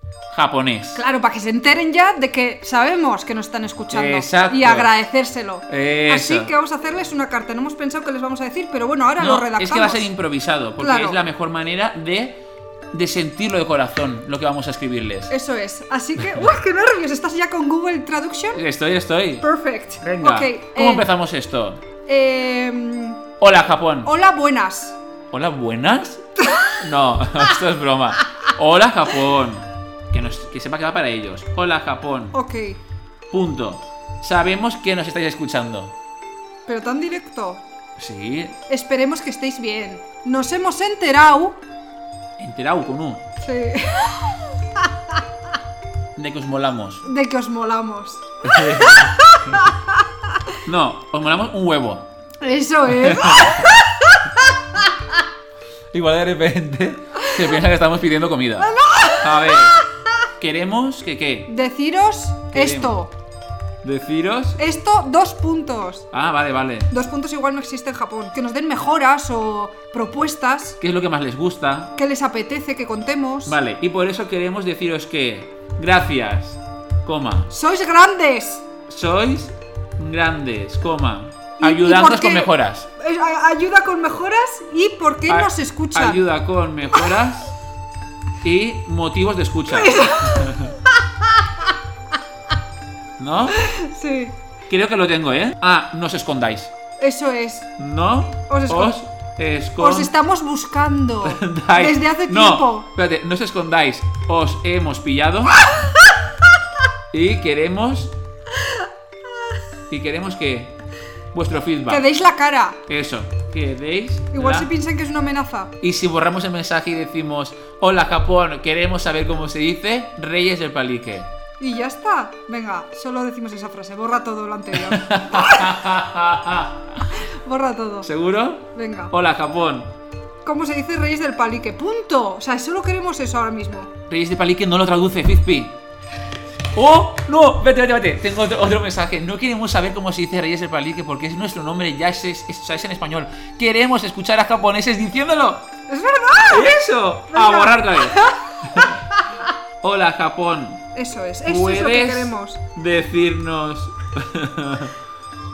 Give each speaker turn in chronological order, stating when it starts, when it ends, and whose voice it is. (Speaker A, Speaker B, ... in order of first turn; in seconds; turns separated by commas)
Speaker A: 0.3-1.0, Speaker B: 0.9-10.1, Speaker A: 3.9-4.9, Speaker A: 5.7-6.5, Speaker A: 9.2-15.3, Speaker B: 10.8-11.2, Speaker B: 15.3-18.6, Speaker A: 18.5-19.4, Speaker B: 19.4-21.1, Speaker A: 20.0-21.8, Speaker B: 22.1-23.2, Speaker A: 23.4-24.1, Speaker B: 24.0-25.0, Speaker A: 25.3-26.3, Speaker A: 26.8-32.3, Speaker B: 32.3-32.8, Speaker A: 33.3-35.9, Speaker B: 36.7-37.6, Speaker A: 38.0-38.6, Speaker B: 38.7-41.6, Speaker A: 42.4-43.2, Speaker B: 43.4-44.9, Speaker A: 46.1-47.0, Speaker B: 47.0-48.2, Speaker A: 48.4-49.7, Speaker B: 48.8-50.0, Speaker A: 50.6-52.1, Speaker B: 52.4-54.2, Speaker A: 52.9-53.7, Speaker A: 55.9-59.8, Speaker B: 58.6-59.8, Speaker A: 60.4-61.5, Speaker B: 61.5-63.1, Speaker A: 62.5-63.0, Speaker A: 63.8-64.6, Speaker B: 64.6-66.1, Speaker A: 66.1-66.9, Speaker B: 66.9-70.8, Speaker A: 70.8-71.9, Speaker B: 72.0-73.6, Speaker A: 73.5-77.5, Speaker B: 77.5-78.6, Speaker A: 78.9-82.9, Speaker B: 81.6-86.2, Speaker A: 85.3-87.5, Speaker A: 88.4-90.7, Speaker B: 89.7-90.5, Speaker A: 93.2-93.6, Speaker B: 93.6-94.3, Speaker A: 94.7-96.7, Speaker B: 97.0-97.7, Speaker A: 97.8-100.1, Speaker B: 98.5-99.0, Speaker B: 99.8-102.9, Speaker A: 101.2-105.7, Speaker A: 107.1-108.1, Speaker A: 109.9-110.7, Speaker A: 111.3-112.0, Speaker B: 111.9-112.8, Speaker A: 112.9-114.7, Speaker B: 114.3-115.7, Speaker A: 115.8-121.3, Speaker B: 121.6-125.7, Speaker A: 124.8-127.0, Speaker B: 127.4-128.1, Speaker A: 128.0-129.9, Speaker B: 128.7-129.1, Speaker B: 130.4-133.9, Speaker A: 134.1-135.8, Speaker A: 136.7-145.7, Speaker B: 145.9-146.7, Speaker A: 146.5-149.0, Speaker B: 147.3-149.4, Speaker A: 149.8-150.8, Speaker B: 150.9-152.6, Speaker A: 151.4-154.9